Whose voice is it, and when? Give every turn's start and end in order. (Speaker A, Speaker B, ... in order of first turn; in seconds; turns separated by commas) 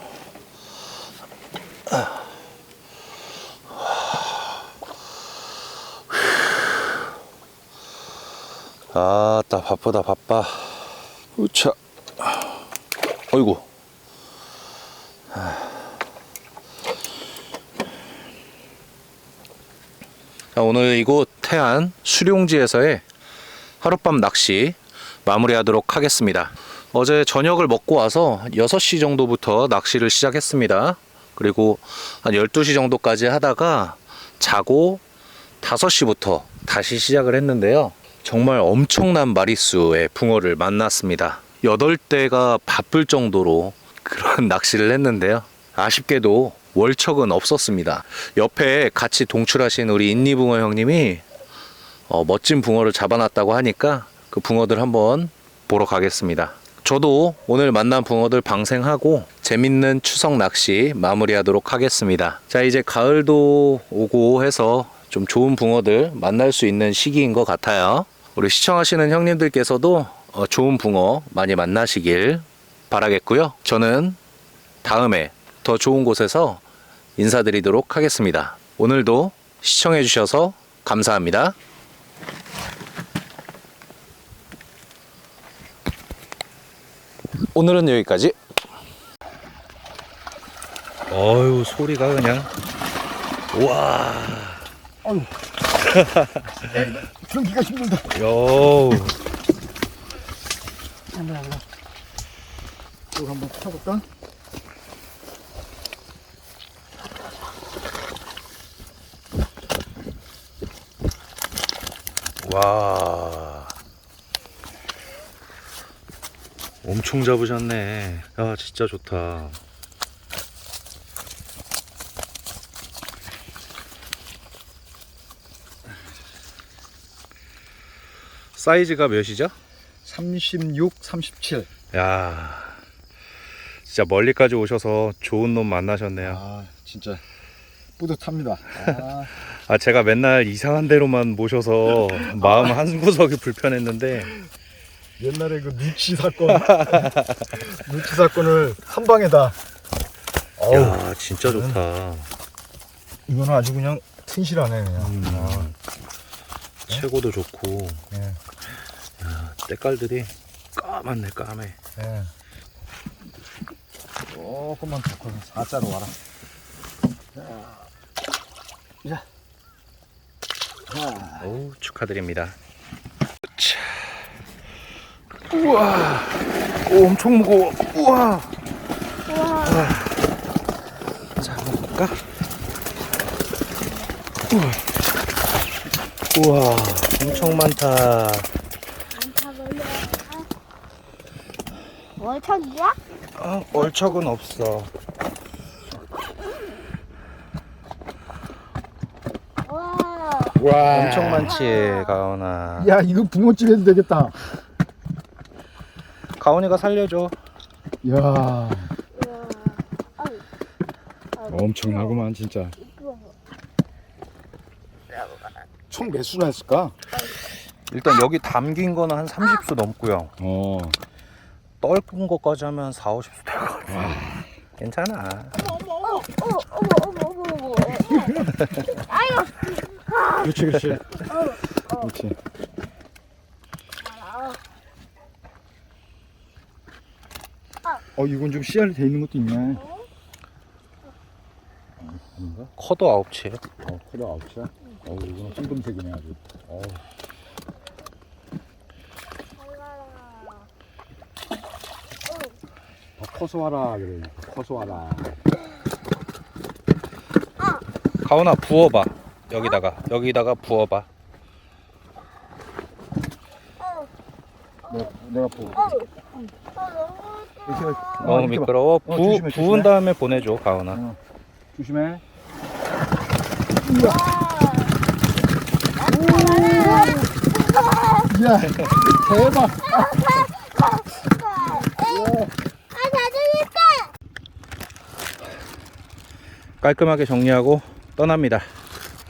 Speaker A: 8.9-12.5, Speaker A: 13.3-13.7, Speaker A: 15.3-15.7, Speaker A: 20.6-23.0, Speaker A: 23.8-35.0, Speaker A: 35.6-51.2, Speaker A: 52.1-74.2, Speaker A: 74.8-76.6, Speaker A: 77.2-81.6, Speaker A: 87.5-88.4, Speaker A: 91.1-92.5, Speaker A: 93.5-94.7, Speaker B: 95.0-95.3, Speaker A: 95.8-96.7, Speaker B: 96.6-98.1, Speaker A: 98.1-99.2, Speaker B: 103.1-104.1, Speaker A: 112.4-113.7, Speaker A: 116.8-119.6, Speaker A: 128.6-129.6, Speaker B: 130.1-131.7, Speaker A: 131.9-132.8, Speaker A: 133.9-136.4, Speaker B: 136.2-137.2, Speaker B: 138.0-139.3, Speaker A: 139.5-144.3, Speaker B: 145.2-149.6, Speaker A: 146.5-147.5, Speaker B: 150.6-151.8, Speaker A: 150.7-152.3, Speaker B: 153.3-155.7, Speaker A: 155.0-155.8, Speaker A: 156.9-158.0, Speaker B: 158.1-158.4, Speaker A: 159.2-161.8, Speaker B: 162.0-162.3, Speaker B: 164.3-166.2, Speaker B: 167.4-167.7, Speaker B: 170.9-171.5, Speaker A: 171.4-172.6, Speaker A: 173.6-174.3, Speaker A: 175.5-178.5, Speaker C: 179.3-179.9, Speaker A: 179.6-180.2, Speaker A: 181.4-182.2, Speaker A: 184.5-184.8, Speaker A: 186.3-188.5, Speaker C: 187.3-187.6, Speaker C: 189.1-190.5, Speaker C: 192.2-193.0, Speaker A: 193.4-194.9, Speaker C: 199.6-200.7, Speaker B: 200.6-201.5, Speaker A: 200.8-202.9, Speaker C: 201.4-202.2, Speaker B: 202.8-204.4, Speaker A: 206.4-207.4, Speaker B: 208.0-208.9, Speaker C: 209.2-210.4, Speaker C: 211.4-212.3, Speaker B: 211.5-212.8, Speaker C: 212.8-213.4, Speaker B: 215.9-217.0, Speaker A: 217.9-220.3, Speaker B: 220.4-221.0, Speaker A: 221.8-225.6, Speaker B: 223.9-224.3, Speaker C: 225.7-230.7, Speaker B: 230.4-232.4, Speaker C: 231.3-232.1, Speaker C: 234.0-234.6, Speaker B: 238.2-239.8, Speaker B: 242.0-242.7, Speaker A: 242.8-243.6, Speaker B: 243.8-247.0, Speaker C: 249.6-250.7, Speaker B: 253.2-255.4, Speaker A: 258.2-261.1, Speaker B: 264.9-266.0, Speaker C: 265.8-266.1, Speaker C: 266.7-268.2, Speaker B: 267.7-269.9, Speaker A: 268.2-271.0, Speaker B: 270.9-271.2, Speaker B: 271.7-272.2, Speaker B: 273.8-274.3, Speaker C: 273.9-275.0, Speaker C: 276.0-278.3, Speaker B: 276.0-277.3, Speaker B: 278.2-280.4, Speaker C: 279.3-284.1, Speaker B: 282.0-282.5, Speaker A: 286.8-288.7